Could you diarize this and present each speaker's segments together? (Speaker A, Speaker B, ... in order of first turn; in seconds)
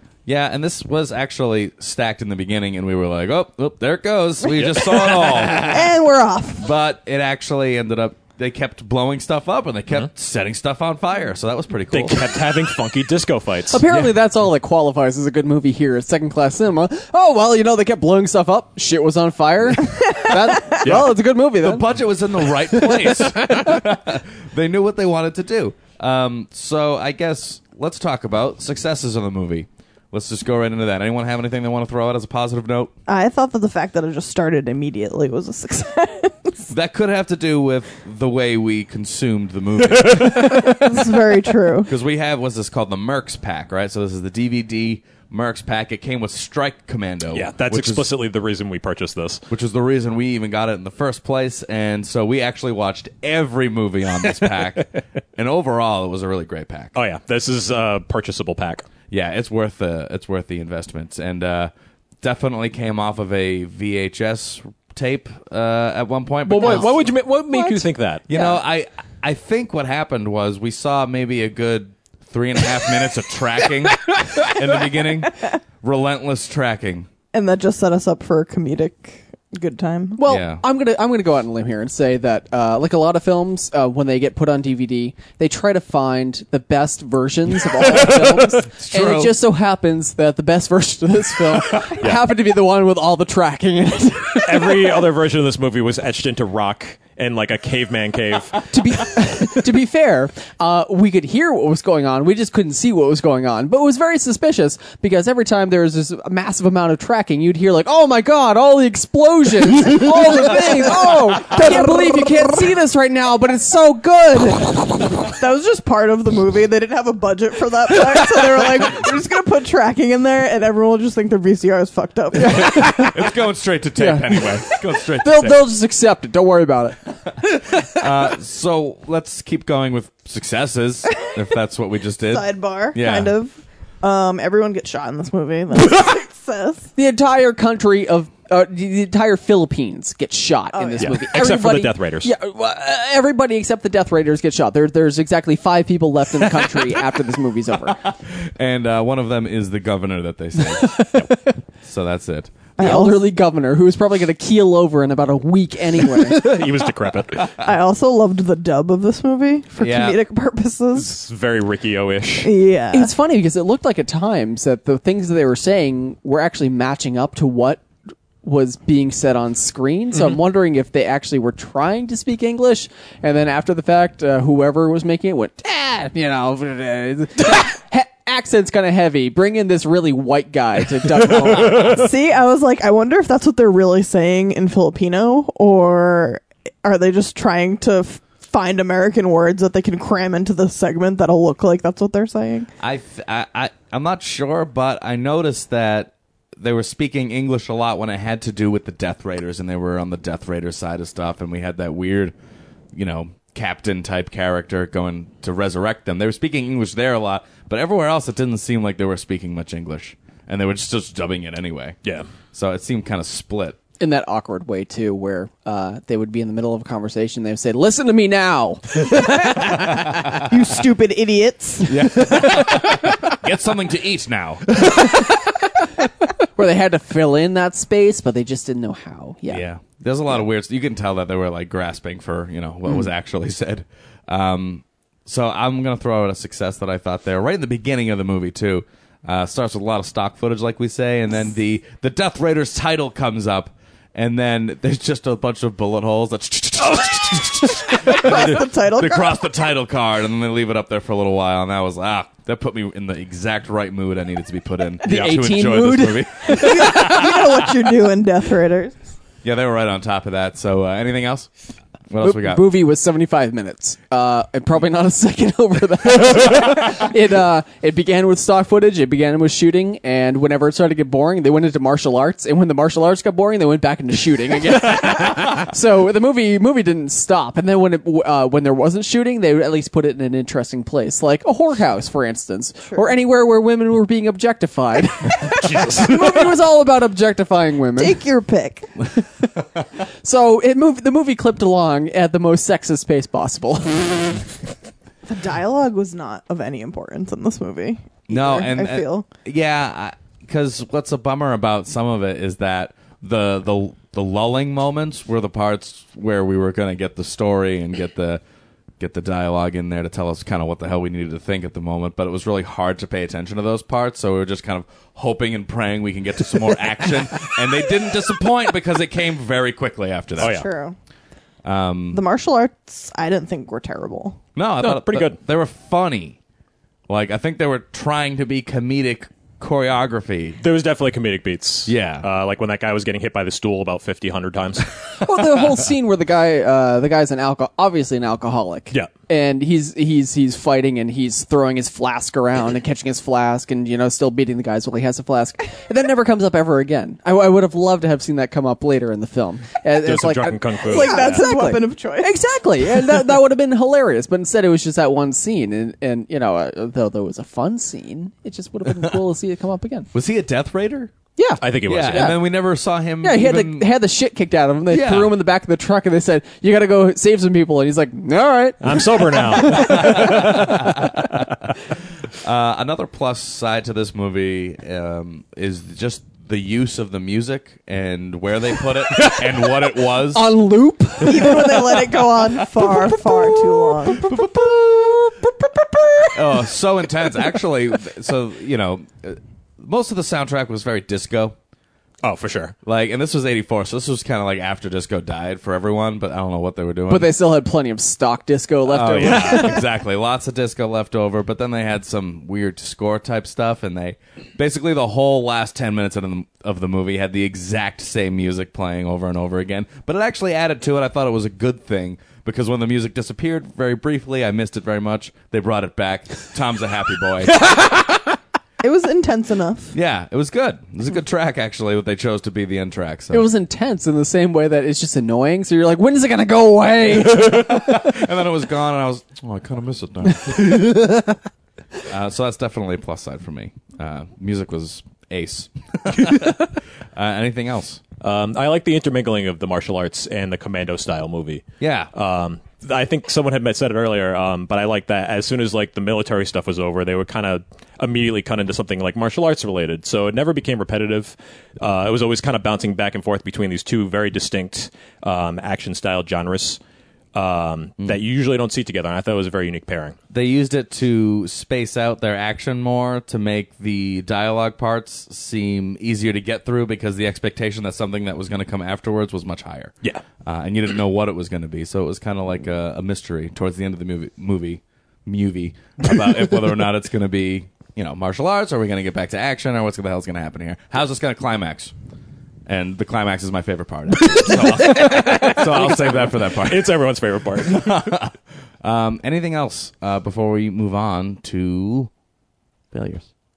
Speaker A: 0.3-5.9, 6.6-12.2, 13.9-14.2, 21.6-32.9, 36.7-41.2, 41.9-48.1, 49.5-57.0, 59.1-61.7, 62.2-67.1, 68.3-77.1, 80.2-80.6, 87.9-89.4, 91.5-92.0, 122.5-125.6, 127.8-133.3, 147.9-151.3, 151.8-152.6, 159.8-160.2, 192.8-202.3, 202.9-212.0, 212.5-213.8, 221.8-225.0, 229.5-257.9, 259.4-261.5, 262.1-262.7, 298.3-308.4, 309.0-320.6, 321.6-322.2, 324.6-326.4, 327.1-330.6, 331.9-332.3, 360.1-361.1, 361.8-363.9, 364.9-365.4, 369.6-371.7, 372.3-380.6, 384.1-385.2, 386.3-391.6, 392.9-397.3, 398.9-417.7, 419.9-423.5, 427.2-431.2, 432.0-438.0, 441.8-442.1, 460.3-469.9, 470.4-481.9, 482.7-487.0, 487.6-492.1, 492.9-493.3
Speaker B: 5.6-6.7, 33.1-36.6, 40.5-41.9, 77.3-80.2, 110.5-112.4, 115.3-123.0, 132.3-136.9, 140.7-141.3, 152.8-153.2, 157.6-161.2, 162.4-163.1, 181.7-192.7, 220.4-222.5, 247.9-249.3, 256.5-259.0, 288.0-288.9, 295.3-299.3, 320.4-321.0, 322.1-324.4, 350.9-352.4, 381.2-384.3, 418.8-419.9
Speaker C: 11.9-13.8, 20.8-21.1, 40.1-40.6, 47.3-49.5, 57.0-58.9, 66.5-68.6, 94.5-98.6, 141.0-142.3, 156.1-157.5, 160.9-162.5, 285.5-286.5, 320.4-320.7, 324.8-325.4, 330.6-334.9, 349.9-351.4, 361.6-362.4, 368.8-370.5, 392.2-392.8, 399.2-399.7, 438.2-456.8, 457.4-460.2, 484.4-488.1
Speaker D: 13.7-21.9, 80.2-94.9, 98.7-115.1, 122.4-123.2, 124.0-127.1, 137.0-148.0, 151.0-151.3, 152.8-156.6, 162.9-167.8, 168.4-182.1, 214.0-219.9, 226.6-229.6, 255.0-257.2, 262.2-288.2, 290.2-294.4, 335.2-360.1, 361.4-362.4, 363.2-371.1, 380.3-386.4, 397.1-399.8, 423.3-428.1